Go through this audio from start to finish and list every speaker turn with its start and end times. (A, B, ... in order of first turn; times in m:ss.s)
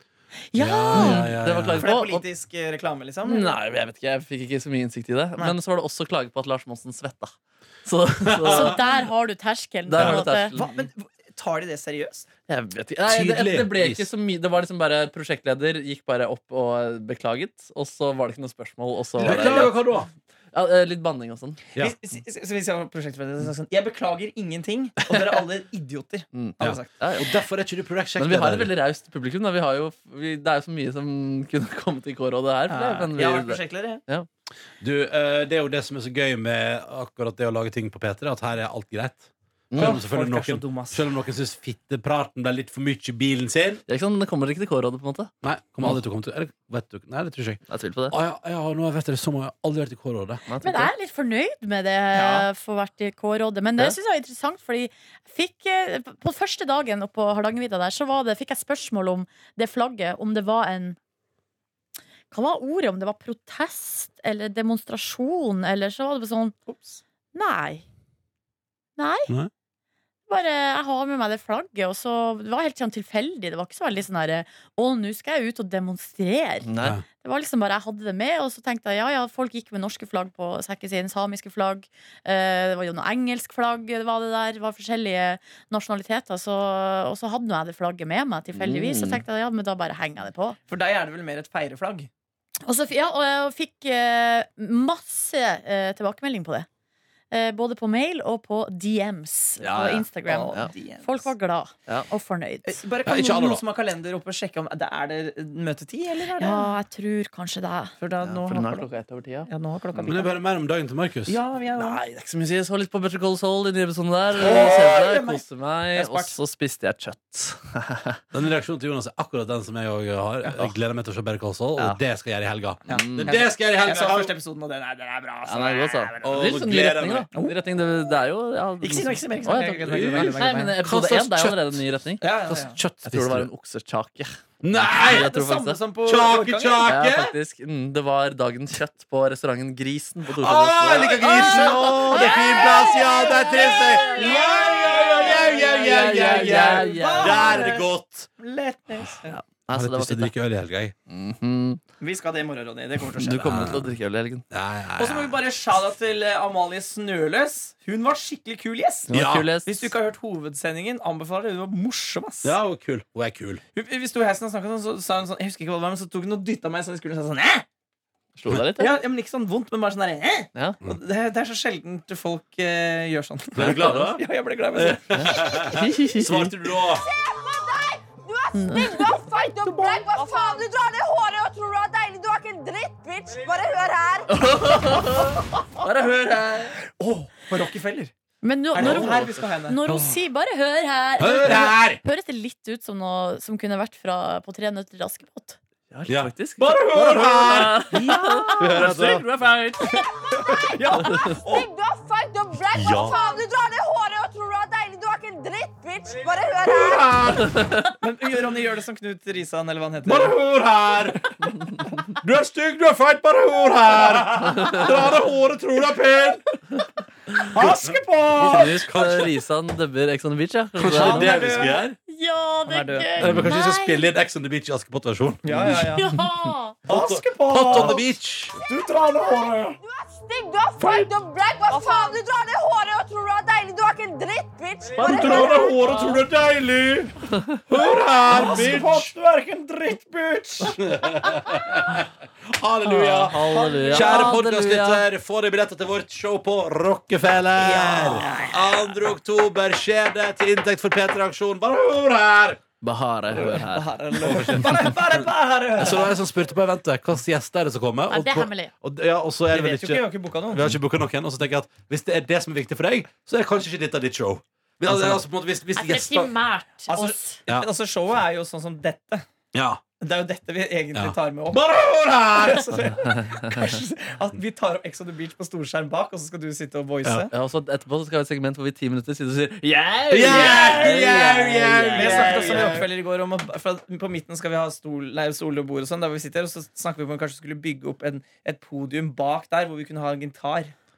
0:00.5-0:01.2 A
0:00.5-0:01.9 B
0:00.9-0:02.2 C
0:01.8-0:03.5 D
0:03.2-0:07.3 C
0:07.8-0:08.8 C
0:08.2-0:08.8 B
0:08.4-0:10.5 A
0:09.9-0:10.8 C
0:10.5-0:12.3 D
0:12.5-0:19.8 C
0:13.0-0:14.1 B
0:19.2-0:19.7 D
0:19.2-0:20.1 B
0:20.5-0:21.6 C
0:21.8-0:27.0 D
0:26.3-0:27.4 C
0:26.6-0:28.7 B
0:28.2-0:34.3 C
0:32.7-0:34.0 D
0:34.8-0:43.8 B
0:39.7-0:40.0 C
0:39.8-0:41.1 D
0:43.9-0:45.3 C
0:45.4-0:50.4 B
0:47.7-0:48.2 C
0:50.5-0:50.9 C
0:50.6-1:01.0 A
0:52.1-0:52.5 D
1:02.3-1:06.5 A
1:06.7-1:07.0 D
1:07.3-1:07.8 A
1:09.0-1:09.3 A
1:10.3-1:16.7 A
1:16.7-1:17.0 C
1:17.2-1:30.6 A
1:28.6-1:29.2 C
1:30.7-1:32.1 D
1:32.6-1:36.7 A
1:37.3-1:42.8 A
1:39.6-1:40.7 C
1:40.2-1:41.3 D
1:42.6-1:46.7 D
1:43.0-1:43.6 B
1:46.4-1:47.9 A
1:48.0-1:48.9 D
1:48.2-1:50.1 C
1:49.5-1:50.4 D
1:50.1-1:51.4 B
1:51.3-1:52.0 D
1:51.8-1:58.2 C
1:54.3-1:56.4 D
1:54.4-1:55.0 B
1:58.3-2:04.3 B
2:00.4-2:00.7 C
2:02.9-2:06.6 D
2:02.9-2:03.3 C
2:05.5-2:12.2 C
2:06.2-2:07.2 B
2:07.3-2:07.6 D
2:08.8-2:10.8 D
2:09.8-2:11.8 B
2:12.2-2:12.8 D
2:12.5-2:13.5 B
2:13.0-2:15.8 C
2:14.6-2:15.3 B
2:14.8-2:17.1 D
2:16.0-2:17.3 B
2:16.8-2:21.4 C
2:20.3-2:28.3 B
2:20.9-2:29.4 D
2:23.8-2:24.3 E
2:25.3-2:27.6 C
2:29.3-2:30.3 C
2:29.7-2:30.9 B
2:31.1-2:31.8 C
2:32.0-2:33.6 D
2:33.2-2:34.4 C
2:33.3-2:34.0 B
2:34.5-2:35.4 B
2:35.0-2:39.1 D
2:39.1-2:39.9 C
2:39.1-2:39.5 B
2:39.6-2:42.5 D
2:42.4-2:43.6 B
2:43.7-2:47.6 D
2:48.4-2:49.0 C
2:48.8-2:55.1 D
2:53.6-2:57.0 B
2:55.1-2:56.5 C
2:56.8-3:04.4 E
2:58.5-2:59.1 A
3:04.3-3:06.8 C
3:07.0-3:08.1 D
3:08.4-3:15.6 A
3:08.7-3:09.8 D
3:08.7-3:10.1 B
3:11.2-3:12.0 B
3:15.9-3:20.0 C
3:16.1-3:17.9 B
3:17.9-3:18.9 D
3:18.1-3:18.6 A
3:18.6-3:19.2 B
3:19.8-3:21.6 D
3:21.0-3:21.3 C
3:21.4-3:27.2 E
3:22.7-3:23.1 B
3:26.6-3:27.7 B
3:27.4-3:27.9 C
3:28.0-3:30.4 D
3:30.0-3:31.5 B
3:32.2-3:36.4 B
3:37.5-3:38.7 D
3:37.5-3:39.3 B
3:38.4-3:41.5 C
3:40.8-3:42.0 B
3:40.8-3:41.8 D
3:42.1-3:44.1 A
3:42.7-3:43.4 D
3:43.2-3:45.8 B
3:45.4-3:46.0 D
3:45.6-3:46.8 A
3:46.9-3:48.0 D
3:46.9-3:48.5 B
3:48.5-3:55.7 E
3:48.6-3:49.8 D
3:50.8-3:51.1 D
3:55.0-3:57.1 B
3:55.0-3:56.1 D
3:57.7-3:59.1 B
3:57.7-4:00.9 D
4:00.6-4:12.6 B
4:02.8-4:05.0 C
4:03.5-4:04.3 D
4:07.6-4:08.8 D
4:12.8-4:14.5 C
4:13.4-4:16.2 D
4:14.2-4:26.3 B
4:18.1-4:18.7 A
4:19.5-4:20.7 D
4:24.9-4:25.2 C
4:25.8-4:27.4 A
4:26.9-4:29.2 D
4:29.5-4:29.8 B
4:30.0-4:31.6 D
4:30.9-4:32.8 B
4:32.3-4:37.3 D
4:33.0-4:33.7 C
4:37.0-4:37.3 B
4:37.3-4:42.8 C
4:40.1-4:42.9 B
4:40.2-4:41.0 D
4:41.9-4:50.8 D